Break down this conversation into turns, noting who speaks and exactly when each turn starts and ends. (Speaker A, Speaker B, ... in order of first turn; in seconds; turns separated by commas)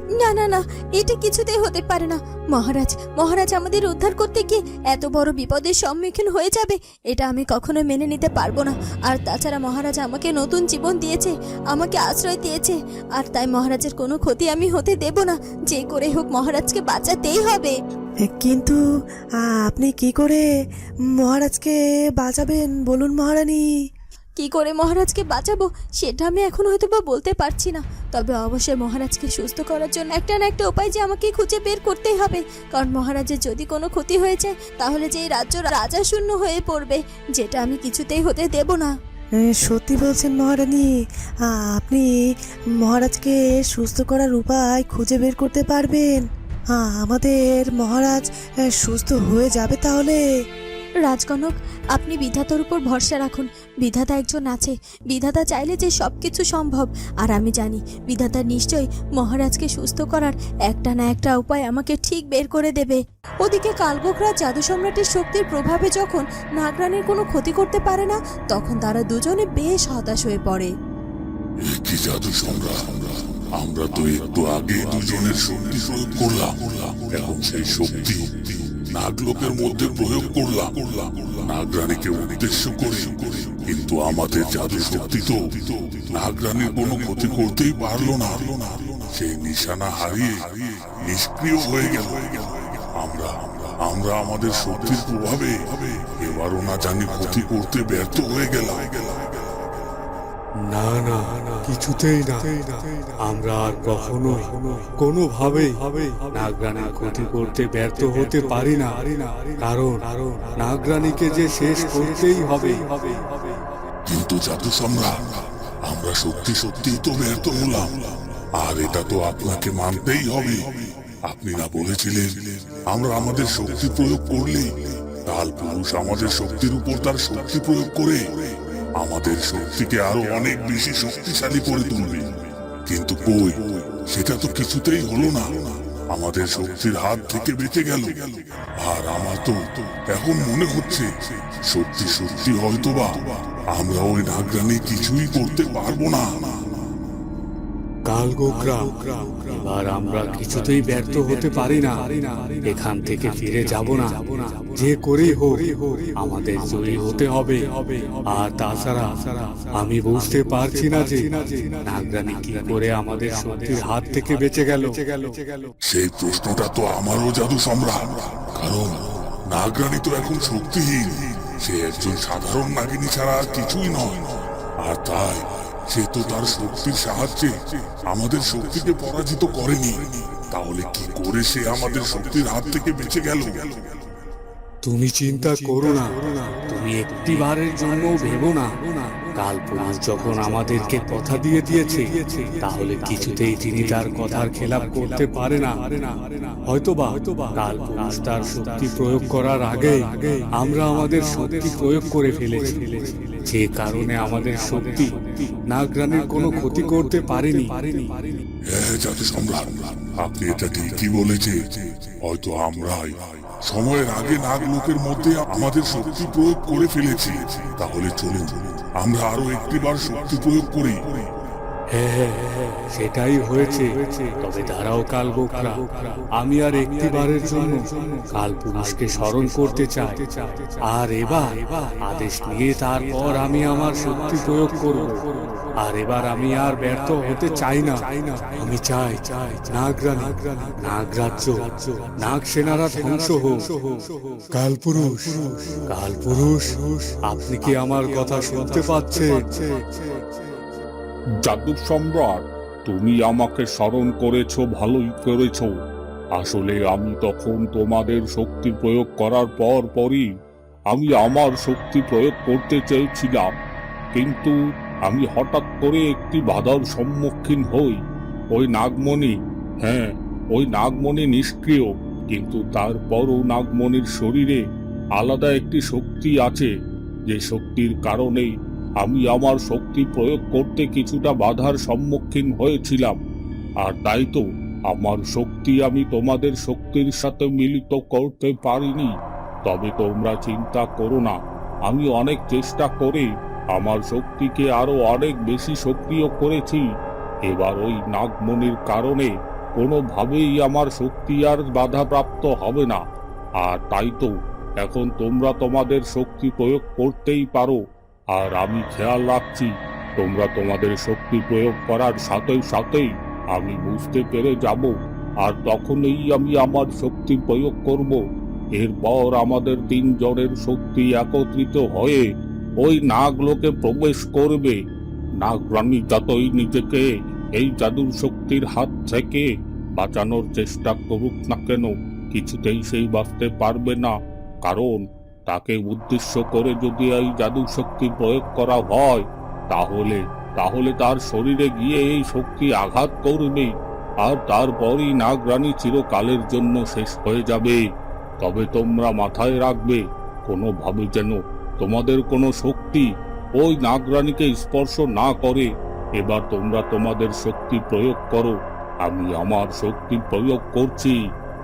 Speaker A: 0.2-17.7, Speaker B: 18.2-18.8, Speaker B: 19.7-20.4, Speaker B: 21.2-23.6, Speaker A: 24.4-38.9, Speaker B: 39.5-40.9, Speaker B: 41.5-42.0, Speaker B: 42.8-46.2, Speaker B: 46.8-48.2, Speaker B: 48.8-50.2, Speaker A: 51.1-70.7, Speaker C: 71.7-85.4, Speaker C: 86.1-99.3, Speaker D: 100.7-113.2, Speaker C: 114.1-120.7, Speaker C: 121.3-124.7, Speaker C: 125.3-128.2, Speaker C: 129.0-132.3, Speaker C: 132.9-141.1, Speaker C: 141.7-146.5, Speaker D: 148.1-165.2, Speaker C: 165.9-183.8, Speaker D: 184.8-208.1, Speaker C: 208.7-221.2, Speaker D: 221.9-243.9, Speaker D: 244.5-249.8, Speaker E: 251.4-255.7, Speaker E: 256.4-260.2, Speaker E: 260.9-263.5, Speaker E: 264.2-264.5, Speaker E: 265.1-268.0, Speaker E: 268.6-274.6, Speaker E: 275.2-276.7, Speaker E: 277.3-278.5, Speaker E: 279.0-283.2, Speaker E: 283.8-289.1, Speaker E: 289.7-291.4, Speaker E: 291.9-296.8, Speaker E: 297.5-303.0, Speaker E: 303.6-304.3, Speaker E: 304.8-307.8, Speaker E: 308.4-314.9, Speaker E: 315.4-318.2, Speaker E: 318.8-322.2, Speaker E: 322.8-324.8, Speaker E: 325.4-327.1, Speaker E: 327.6-329.5, Speaker E: 330.0-334.1, Speaker E: 334.7-343.7, Speaker E: 344.2-347.8, Speaker E: 348.4-353.1, Speaker E: 353.6-355.7, Speaker E: 356.2-358.5, Speaker E: 359.1-361.2